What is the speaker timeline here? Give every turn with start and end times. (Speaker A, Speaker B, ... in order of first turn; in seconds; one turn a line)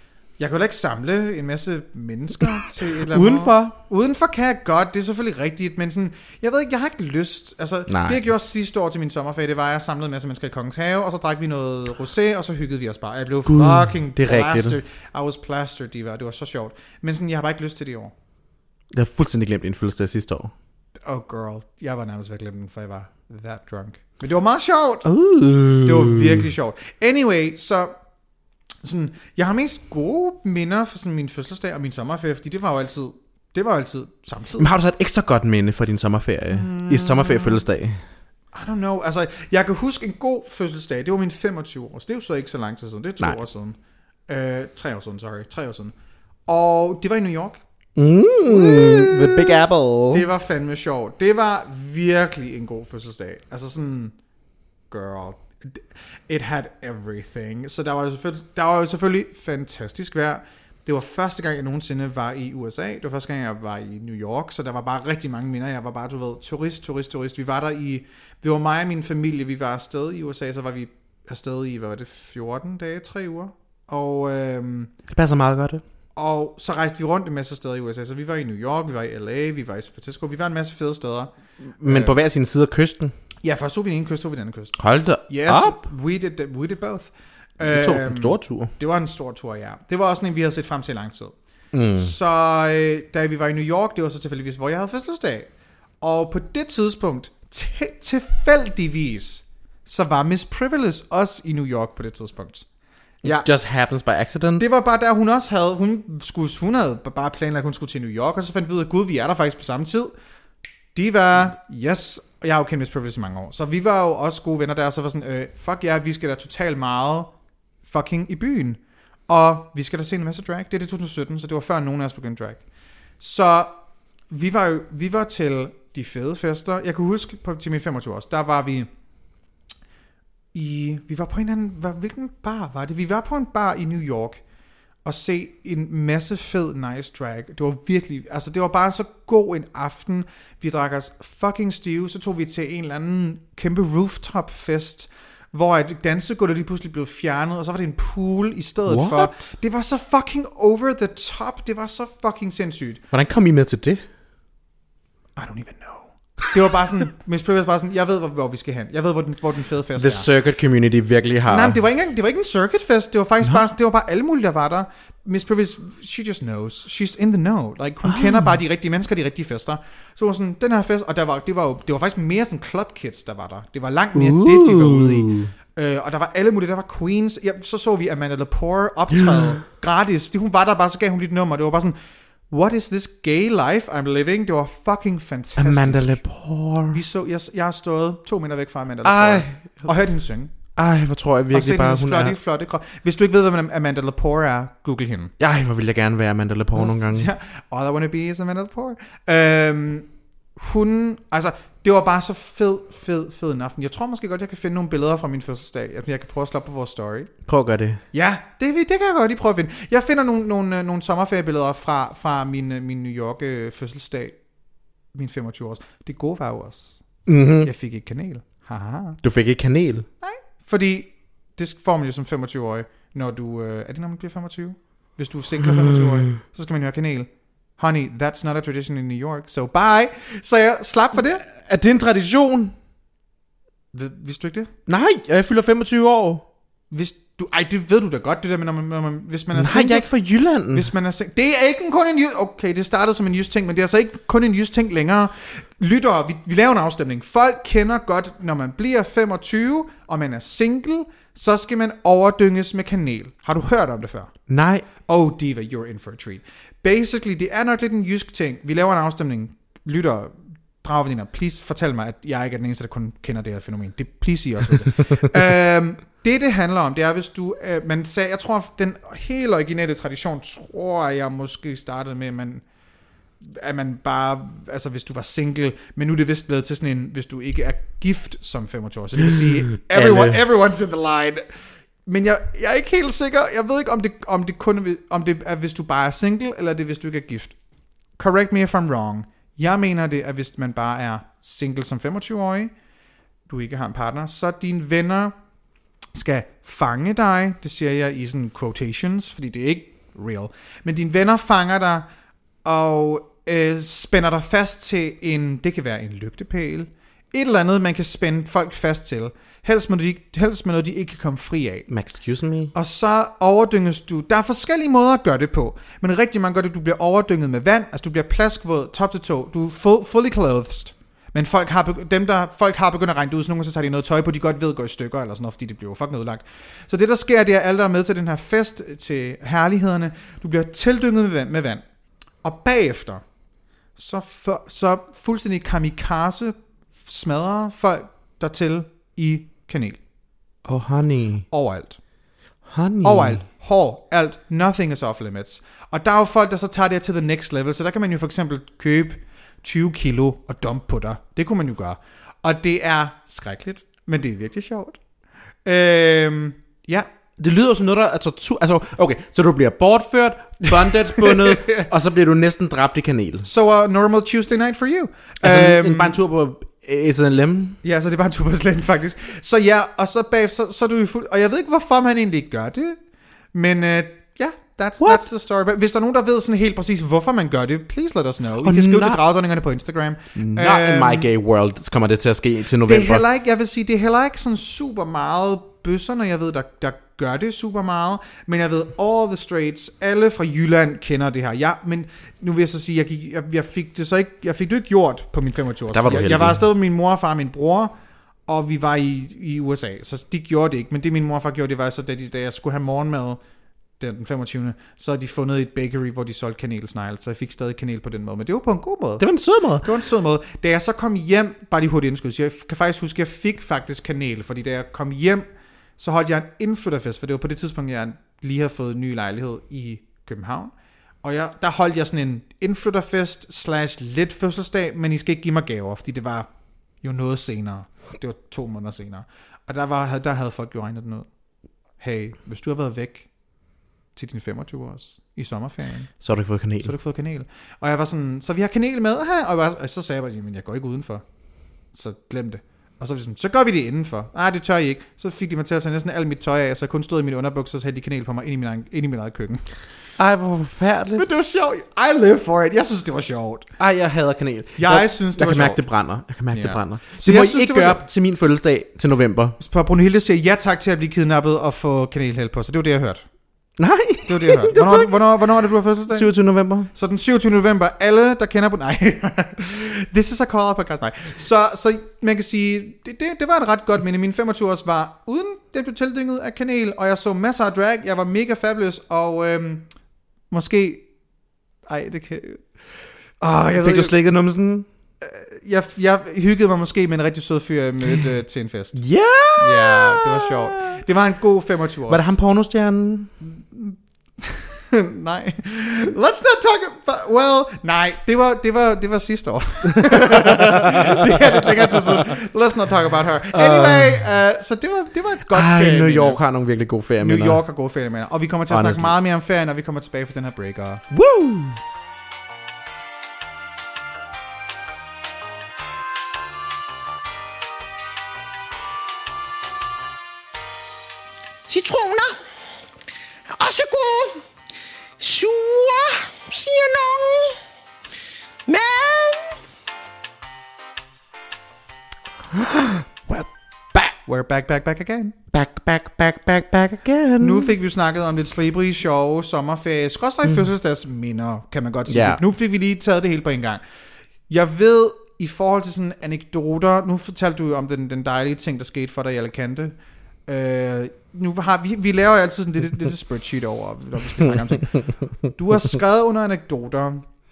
Speaker A: 0.4-18.1
Speaker B: 3.1-3.8
Speaker B: 7.9-8.2
Speaker B: 13.5-14.8
Speaker B: 18.9-20.5
Speaker A: 21.1-25.1
Speaker B: 25.1-26.5
Speaker A: 25.8-27.9
Speaker A: 28.8-34.7
Speaker B: 34.6-38.0
Speaker A: 36.5-37.6
Speaker A: 38.5-43.8
Speaker A: 44.3-45.9
Speaker A: 46.5-47.6
Speaker B: 48.0-50.3
Speaker A: 48.5-54.1
Speaker A: 54.9-74.9
Speaker B: 75.1-75.8
Speaker A: 76.2-82.2
Speaker B: 81.7-83.1
Speaker A: 83.4-91.3
Speaker B: 84.8-85.8
Speaker B: 87.6-88.7
Speaker B: 91.7-92.1
Speaker A: 92.0-95.5
Speaker A: 96.0-102.7
Speaker A: 103.2-103.5
Speaker B: 103.2-104.7
Speaker A: 104.6-110.1
Speaker A: 111.0-122.6
Speaker A: 123.2-123.8
Speaker A: 124.3-128.9
Speaker A: 130.5-134.4
Speaker A: 135.1-153.0
Speaker B: 148.9-149.4
Speaker B: 153.1-154.0
Speaker A: 155.4-160.3
Speaker B: 160.0-161.8
Speaker A: 161.5-182.0
Speaker B: 168.0-168.5
Speaker B: 174.2-175.5
Speaker A: 182.5-186.2
Speaker B: 185.6-187.0
Speaker A: 186.9-190.5
Speaker B: 189.0-189.9
Speaker B: 190.8-192.4
Speaker A: 191.5-195.3
Speaker B: 195.4-197.3
Speaker A: 196.8-207.3
Speaker B: 207.5-208.0
Speaker A: 208.1-214.4
Speaker A: 215.1-217.0
Speaker B: 217.3-217.7
Speaker A: 217.6-219.2
Speaker B: 219.2-220.1
Speaker A: 220.2-231.4
Speaker B: 225.6-226.4
Speaker B: 231.4-232.7
Speaker A: 233.9-234.7
Speaker B: 234.9-236.4
Speaker A: 236.9-240.1
Speaker B: 239.6-240.9
Speaker A: 240.7-254.3
Speaker B: 254.5-254.9
Speaker A: 255.1-272.6
Speaker A: 273.4-281.4
Speaker B: 279.9-280.4
Speaker A: 282.1-287.6
Speaker A: 288.2-292.7
Speaker A: 293.5-295.4
Speaker A: 296.1-302.1
Speaker A: 302.6-311.9
Speaker B: 311.9-312.7
Speaker A: 312.7-331.8
Speaker A: 332.4-333.2
Speaker A: 334.0-340.0
Speaker B: 340.6-341.5
Speaker A: 341.5-342.0
Speaker B: 342.7-343.4
Speaker A: 343.0-355.0
Speaker A: 355.6-357.1
Speaker B: 357.4-363.5
Speaker A: 360.8-361.9
Speaker A: 363.4-366.2
Speaker B: 365.4-367.8
Speaker A: 367.8-373.0
Speaker A: 373.5-381.3
Speaker B: 375.0-375.3
Speaker B: 378.6-379.2
Speaker B: 380.4-383.2
Speaker A: 382.9-397.9
Speaker B: 395.9-396.6
Speaker A: 398.5-403.4
Speaker A: 404.0-409.2
Speaker B: 409.2-409.9
Speaker A: 409.8-415.5
Speaker A: 416.0-426.5
Speaker A: 427.0-431.3
Speaker A: 432.0-433.3
Speaker A: 434.1-436.1
Speaker B: 436.2-436.9
Speaker A: 436.8-441.2
Speaker A: 441.9-449.6
Speaker B: 450.2-451.3
Speaker A: 451.2-453.7
Speaker B: 453.8-459.6
Speaker A: 454.8-455.8
Speaker A: 456.5-458.0
Speaker A: 459.6-463.2
Speaker B: 463.8-465.2
Speaker A: 464.3-466.3
Speaker B: 466.1-466.9
Speaker A: 466.9-479.9
Speaker A: 480.5-481.1
Speaker A: 481.9-482.6
Speaker A: 483.4-484.1
Speaker B: 483.8-484.9
Speaker A: 485.2-489.0
Speaker B: 489.0-491.0
Speaker A: 489.6-492.4
Speaker B: 492.1-493.3
Speaker A: 493.4-506.4
Speaker B: 499.9-502.3
Speaker B: 503.5-504.2
Speaker B: 505.5-507.6
Speaker A: 507.2-511.0
Speaker B: 508.7-509.1
Speaker B: 511.1-511.8
Speaker C: 521.6-522.4
Speaker C: 523.5-524.4
Speaker C: 525.2-527.6
Speaker C: 528.7-529.6
Speaker B: 532.6-534.1
Speaker A: 534.2-535.4
Speaker B: 535.5-537.7
Speaker A: 537.4-543.8
Speaker B: 542.1-542.4
Speaker A: 544.5-557.3
Speaker B: 554.5-555.0